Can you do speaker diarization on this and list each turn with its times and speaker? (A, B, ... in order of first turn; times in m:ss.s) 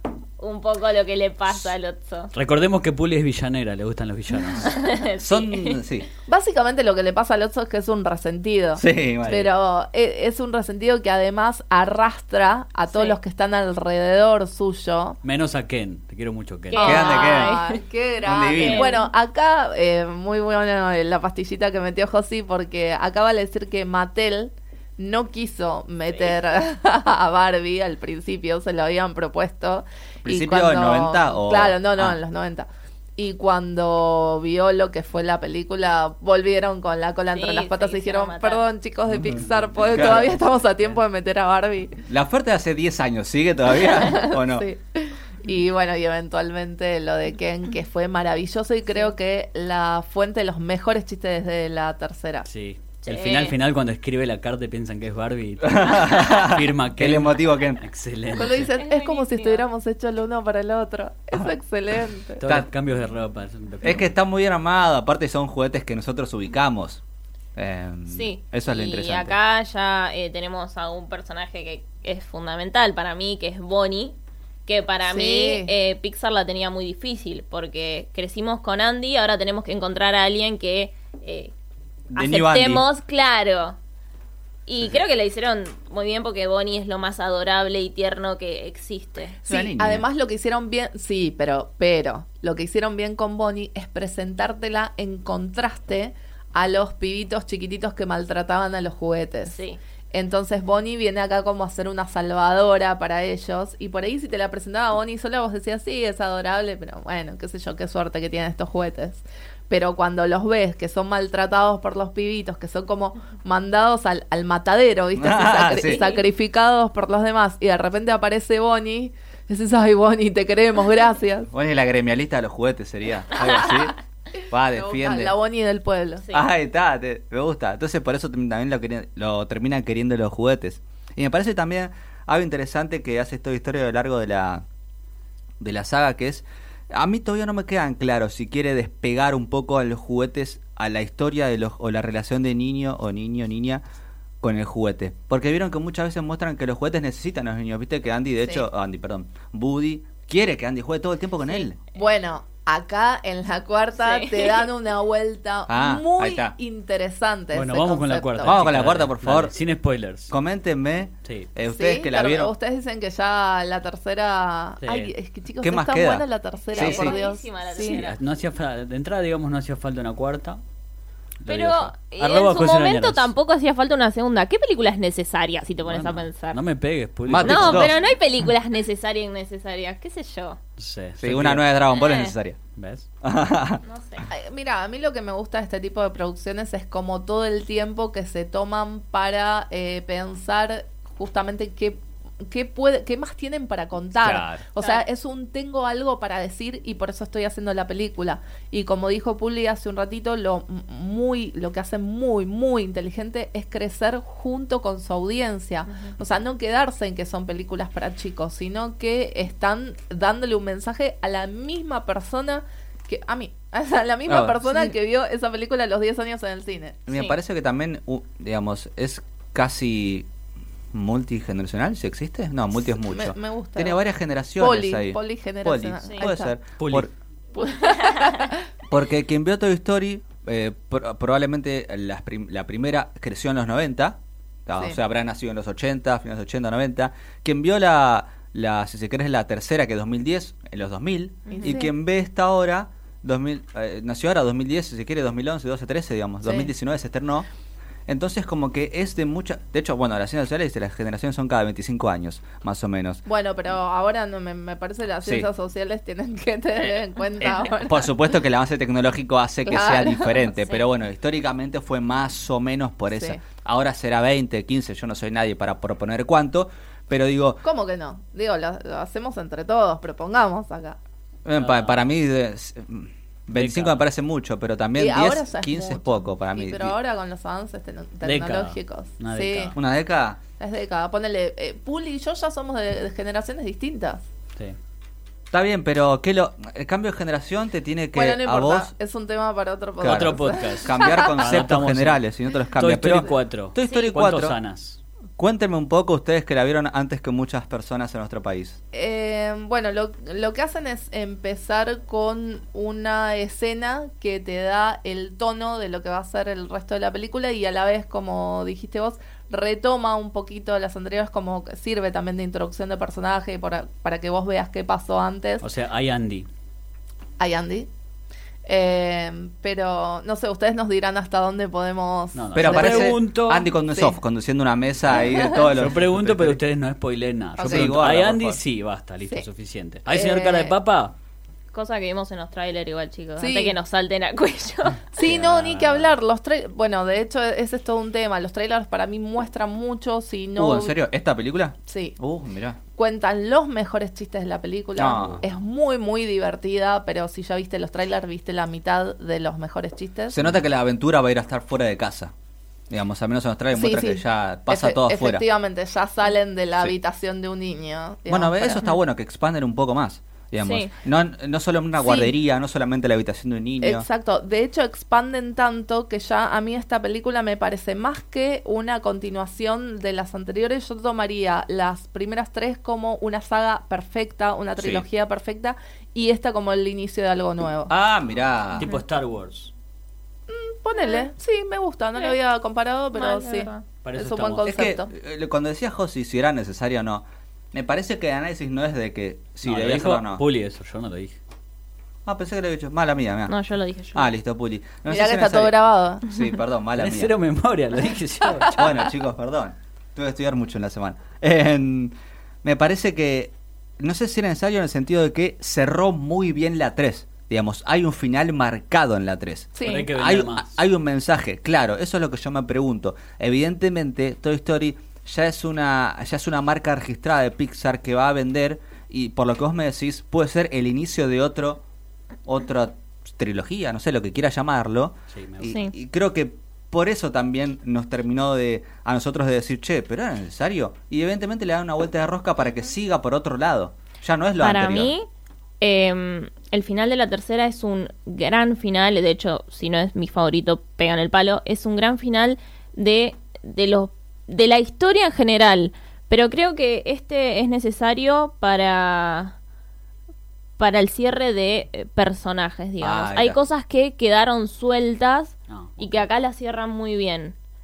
0:00.4-0:02.3 A
0:02.3-0:04.8 B
0:04.6-0:05.8 A
0:05.2-0:06.1 C
0:06.3-0:15.2 D
0:08.8-0:09.5 C
0:15.2-0:17.1 B
0:16.7-0:17.8 A
0:16.8-0:42.0 D
0:16.8-0:17.6 C
0:18.2-0:19.0 C
0:18.6-0:19.1 A
0:30.2-0:32.2 C
0:37.3-0:38.6 A
0:39.4-0:41.0 B
0:39.9-0:40.2 C
0:42.1-0:44.6 C
0:43.8-0:52.5 D
0:52.4-0:58.7 B
0:53.0-0:53.6 A
0:55.6-0:57.8 C
0:58.3-1:02.4 D
0:58.7-0:59.6 A
1:02.4-1:04.1 B
1:03.8-1:07.0 C
1:07.6-1:09.4 C
1:08.1-1:14.1 A
1:14.7-1:21.5 A
1:15.0-1:15.7 D
1:22.1-1:22.8 C
1:22.2-1:23.8 A
1:24.7-1:29.4 A
1:29.4-1:30.0 C
1:29.5-1:39.6 D
1:39.5-1:39.8 A
1:40.1-2:01.5 D
1:55.2-1:56.0 C
1:55.8-1:56.2 A
2:01.5-2:04.0 C
2:04.5-2:05.3 C
2:04.7-2:06.2 D
2:06.3-2:14.6 C
2:15.6-2:23.8 C
2:24.4-2:31.8 C
2:31.9-2:38.6 D
2:34.0-2:34.7 A
2:35.7-2:36.6 C
2:37.5-2:40.3 B
2:38.4-2:39.5 C
2:40.3-2:42.5 C
2:41.2-2:41.5 B
2:41.6-2:48.1 D
2:44.8-2:45.1 B
2:45.6-2:47.2 C
2:46.7-2:48.2 A
2:47.8-2:50.6 B
2:51.4-2:53.3 B
2:51.5-2:56.6 A
2:55.8-2:58.0 B
2:57.3-2:58.0 C
2:57.4-3:00.6 A
3:00.8-3:01.6 B
3:01.2-3:02.6 C
3:01.9-3:02.3 A
3:02.8-3:03.1 B
3:03.2-3:03.8 C
3:03.8-3:04.2 A
3:04.3-3:37.0 D
3:14.2-3:14.6 C
3:14.8-3:15.0 A
3:34.3-3:34.9 C
3:37.1-3:40.3 C
3:37.1-3:37.4 A
3:40.9-3:47.1 C
3:43.1-3:44.0 D
3:44.6-3:46.5 D
3:46.8-3:47.1 B
3:47.5-3:48.6 D
3:47.9-3:48.4 A
3:48.9-4:07.5 C
4:01.5-4:01.9 D
4:01.6-4:01.8 A
4:06.4-4:06.7 D
4:08.1-4:13.2 C
4:13.2-4:18.1 D
4:15.2-4:15.5 C
4:17.4-4:27.6 C
4:19.7-4:20.4 D
4:23.1-4:23.4 D
4:27.6-4:31.0 D
4:31.4-4:36.9 C
4:31.6-4:32.0 B
4:33.5-4:34.0 B
4:35.0-4:39.7 D
4:38.2-4:39.8 B
4:39.7-4:40.4 C
4:40.6-4:44.2 D
4:45.5-4:48.9 C
4:48.1-4:51.4 D
4:50.0-4:54.6 C
4:50.0-4:55.0 B
4:53.8-4:54.1 A
4:55.4-4:58.8 C
4:58.9-5:15.6 D
5:15.6-5:16.5 B
5:17.4-5:17.9 D
5:18.6-5:23.2 D
5:22.3-5:23.7 B
5:22.5-5:26.6 C
5:25.2-5:31.1 B
5:27.6-5:28.0 D
5:27.6-5:28.6 C
5:30.1-5:30.7 D
5:31.7-5:35.0 A
5:33.4-5:33.7 D
5:35.1-5:41.0 D
5:35.2-5:36.1 B
5:40.6-5:42.8 C
5:41.9-5:42.2 D
5:42.9-5:50.4 D
5:45.0-5:45.4 C
5:45.1-5:45.4 B
5:50.3-5:52.3 C
5:52.9-5:55.4 C
5:53.7-5:58.8 D
5:58.3-6:04.0 C
6:00.6-6:00.9 A
6:02.0-6:02.3 D
6:03.8-6:17.9 D
6:14.8-6:15.0 C
6:17.9-6:18.9 C
6:18.8-6:19.7 B
6:20.5-6:25.1 D
6:21.0-6:21.2 A
6:23.1-6:23.8 A
6:24.0-6:24.7 B
6:24.6-6:30.4 C
6:29.6-6:31.4 B
6:32.2-6:33.5 C
6:33.5-6:34.3 A
6:34.1-6:37.3 C
6:35.1-6:36.2 D
6:37.0-6:39.0 B
6:38.7-6:42.1 C
6:42.6-7:01.8 C
6:49.7-6:50.1 D
6:49.8-6:50.7 B
7:02.4-7:15.1 C
7:05.3-7:05.7 B
7:05.7-7:05.9 A
7:14.6-7:15.3 A
7:15.8-7:29.5 A
7:30.8-7:37.5 A
7:33.0-7:33.6 C
7:35.7-7:36.3 B